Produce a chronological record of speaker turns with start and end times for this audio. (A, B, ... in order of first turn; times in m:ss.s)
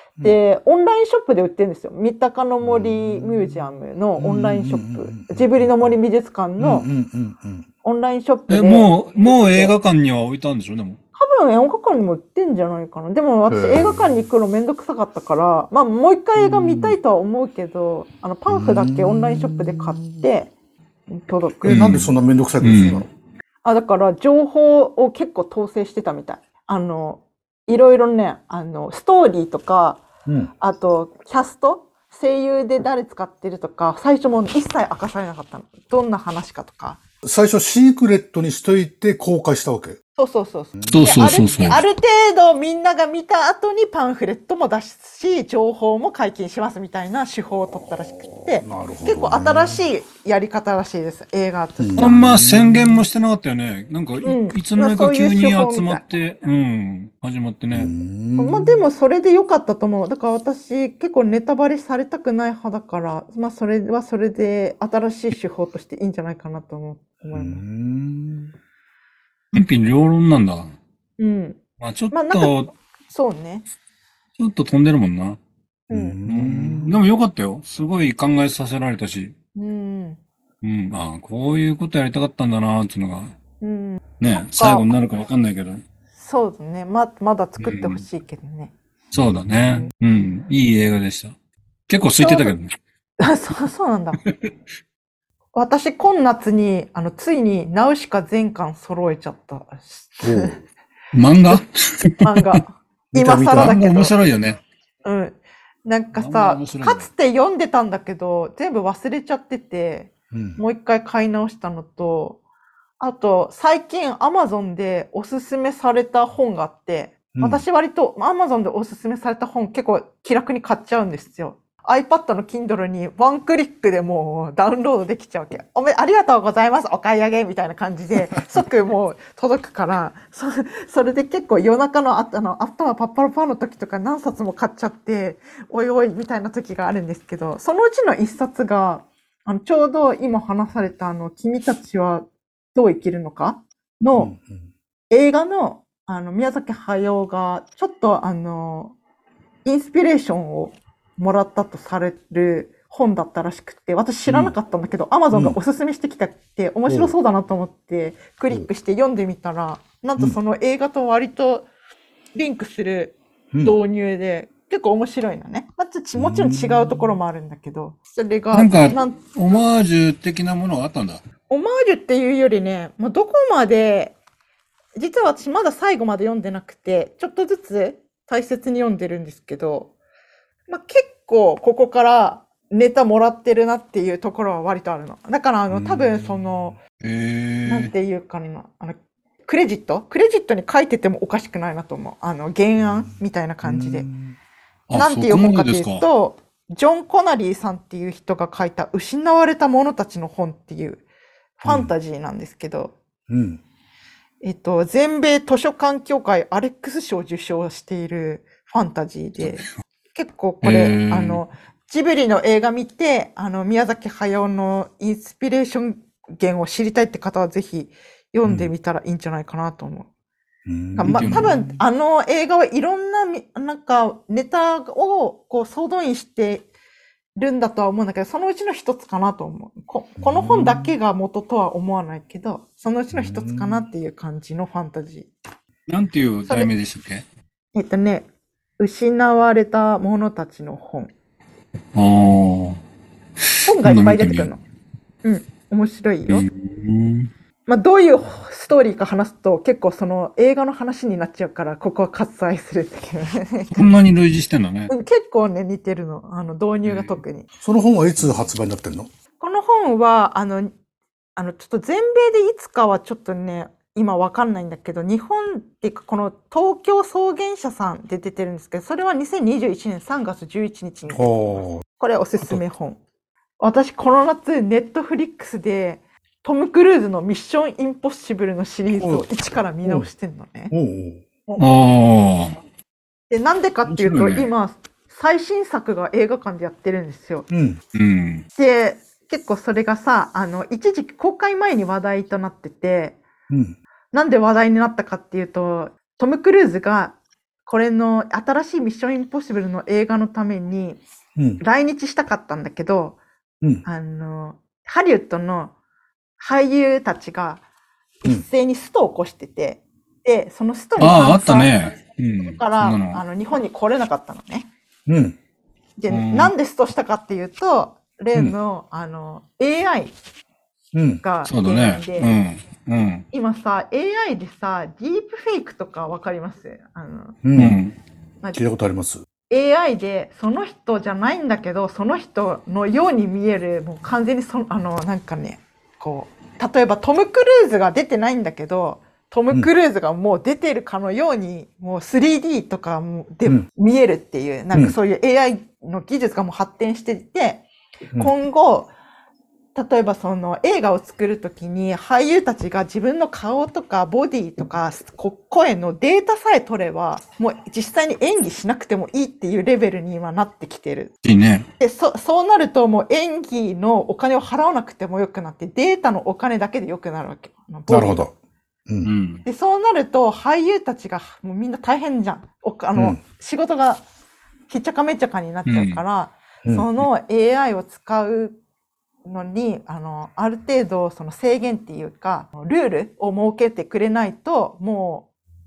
0:00.2-0:06.9 A
0:02.6-0:03.6 B
0:04.2-0:06.0 B
0:06.6-0:07.7 B
0:07.8-0:09.7 A
0:08.5-0:11.0 C
0:11.1-0:20.5 A
0:13.5-0:14.1 B
0:16.4-0:17.0 B
0:18.5-0:20.2 B
0:21.1-0:22.0 A
0:21.6-0:23.1 B
0:21.6-0:23.0 C
0:23.6-0:30.0 A
0:30.2-0:30.5 B
0:30.6-0:37.0 A
0:37.2-0:40.0 B
0:40.2-0:52.2 A
0:40.8-0:41.3 B
0:40.9-0:41.8 C
0:48.2-0:49.8 B
0:51.8-0:53.0 B
0:52.0-0:57.9 C
0:54.2-0:56.0 A
0:57.7-0:58.8 B
0:58.4-1:07.6 A
1:07.3-1:08.5 B
1:09.5-1:10.8 C
1:11.2-1:11.6 A
1:11.8-1:12.7 C
1:12.1-1:12.6 A
1:13.1-1:13.6 A
1:14.4-1:15.4 C
1:15.9-1:16.2 A
1:15.9-1:17.0 B
1:16.2-1:19.3 C
1:19.5-1:20.2 A
1:20.6-1:23.4 C
1:23.6-1:24.9 A
1:24.2-1:25.8 C
1:26.2-1:28.7 A
1:27.6-1:28.0 C
1:29.1-1:31.3 C
1:31.9-1:32.7 C
1:32.2-1:32.5 A
1:33.2-1:34.2 A
1:34.2-1:34.5 C
1:35.5-1:40.6 A
1:40.2-1:40.6 B
1:41.1-1:42.6 C
1:42.2-1:44.1 A
1:43.1-1:43.8 B
1:43.5-1:44.6 C
1:45.0-1:52.4 A
1:46.1-1:47.1 C
1:50.3-1:50.6 B
1:53.0-2:24.3 A
1:57.3-1:57.6 B
2:24.1-2:24.7 B
2:25.1-2:29.0 A
2:29.6-2:41.7 A
2:34.3-2:34.5 B
2:35.3-2:35.6 B
2:36.9-2:37.1 B
2:42.4-2:49.2 A
2:43.5-2:43.8 B
2:46.2-2:47.1 B
2:48.5-2:51.2 C
2:51.5-2:54.2 A
2:55.0-2:59.9 A
3:00.7-3:06.8 A
3:05.7-3:06.6 B
3:07.0-3:07.9 C
3:07.7-3:14.1 A
3:12.8-3:13.1 B
3:13.6-3:14.4 B
3:14.9-3:16.0 C
3:14.9-3:21.0 A
3:21.6-3:22.9 A
3:21.6-3:21.9 B
3:23.3-3:23.6 B
3:24.4-3:40.1 A
3:30.6-3:31.4 C
3:38.4-3:38.7 B
3:40.6-3:41.8 B
3:40.9-3:46.7 A
3:41.0-3:41.5 C
3:47.4-3:55.3 A
3:50.2-3:50.9 B
3:53.1-3:53.9 B
3:55.9-3:57.2 C
3:57.7-3:58.3 A
3:58.8-4:01.1 A
4:01.9-4:02.8 C
4:03.4-4:04.5 C
4:03.6-4:04.6 A
4:05.2-4:06.5 A
4:06.3-4:07.3 C
4:07.7-4:13.9 A
4:13.7-4:14.9 C
4:14.9-4:17.5 A
4:16.9-4:17.2 C
4:17.6-4:19.1 B
4:19.4-4:20.7 A
4:21.4-4:33.0 A
4:31.1-4:31.8 B
4:33.6-4:40.7 A
4:39.0-4:39.3 B
4:40.7-4:41.2 B
4:41.6-4:42.6 C
4:43.3-4:47.5 A
4:43.9-4:44.5 C
4:47.5-4:47.8 B
4:47.9-4:48.4 C
4:48.5-4:53.2 A
4:53.5-4:53.8 B
4:54.1-5:01.0 A
5:01.4-5:01.6 B
5:01.6-5:03.2 A
5:03.8-5:05.7 A
5:06.4-5:07.6 A
5:08.2-5:11.7 A
5:11.0-5:13.2 C
5:12.4-5:14.7 A
5:15.1-5:15.4 B
5:16.0-5:20.1 A
5:16.1-5:16.5 C
5:20.9-5:21.2 B
5:21.2-5:22.3 A
5:21.4-5:23.2 C
5:23.3-5:27.4 A
5:27.4-5:27.8 B
5:27.6-5:27.9 C
5:28.5-5:29.2 B
5:29.5-5:48.9 A
5:49.7-6:01.1 A
6:01.2-6:01.6 C
6:01.8-6:08.3 A
6:07.9-6:08.3 B
6:09.0-6:09.4 C
6:09.4-6:14.0 A
6:12.9-6:13.2 B
6:14.7-6:18.6 A
6:15.6-6:16.0 C
6:16.6-6:17.1 B
6:19.2-6:25.3 A